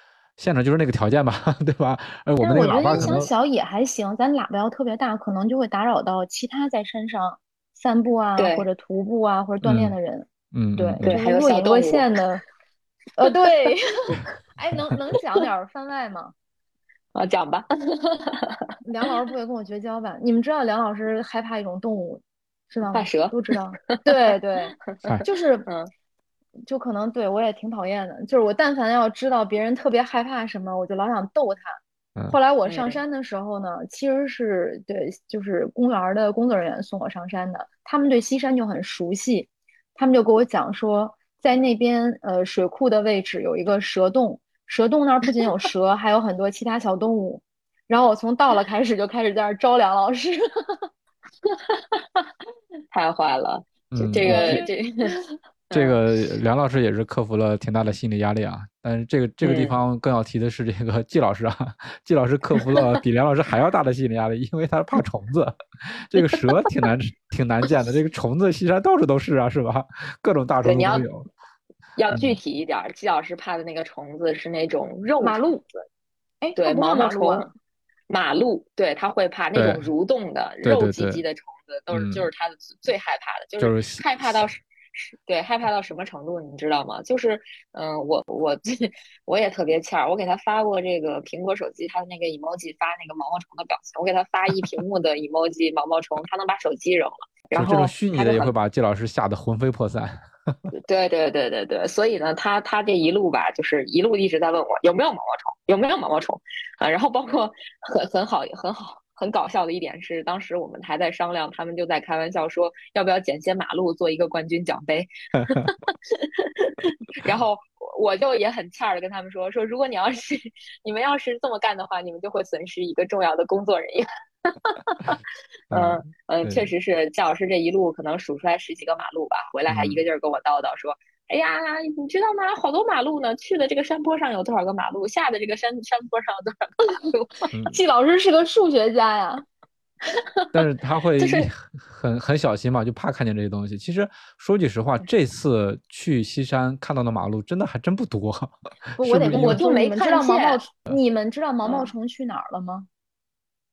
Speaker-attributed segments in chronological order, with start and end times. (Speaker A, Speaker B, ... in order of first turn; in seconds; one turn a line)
Speaker A: 0.4-3.3
Speaker B: 2.4-12.4
Speaker C: 8.4-8.7
Speaker A: 9.6-9.9
Speaker A: 10.5-11.2
Speaker C: 11.0-12.1
Speaker B: 13.2-16.3
Speaker C: 17.1-18.7
Speaker B: 18.8-25.7
Speaker C: 22.9-24.1
Speaker B: 26.7-31.8
Speaker B: 32.3-50.8
Speaker C: 32.6-33.0
Speaker C: 51.5-52.3
Speaker C: 52.9-55.1
Speaker A: 53.9-54.6
Speaker B: 54.2-55.2
Speaker C: 55.7-56.0
Speaker A: 55.7-71.3
Speaker C: 59.4-59.7
Speaker C: 62.6-62.9
Speaker C: 70.6-71.0
Speaker C: 72.0-75.5
Speaker A: 72.1-72.4
Speaker B: 75.2-75.6
Speaker B: 76.4-77.5
Speaker C: 76.5-77.5
Speaker C: 78.1-98.5
Speaker A: 79.5-79.9
Speaker A: 80.6-81.2
Speaker A: 81.9-82.3
Speaker A: 83.6-84.0
Speaker A: 97.5-100.6
Speaker C: 100.8-137.5
Speaker A: 125.7-126.7
Speaker A: 129.7-130.0
Speaker A: 137.5-137.8
Speaker B: 137.7-139.4
Speaker C: 140.1-140.6
Speaker A: 140.5-149.6
Speaker C: 141.2-141.5
Speaker B: 149.0-152.9
Speaker C: 149.2-150.6
Speaker C: 151.6-151.9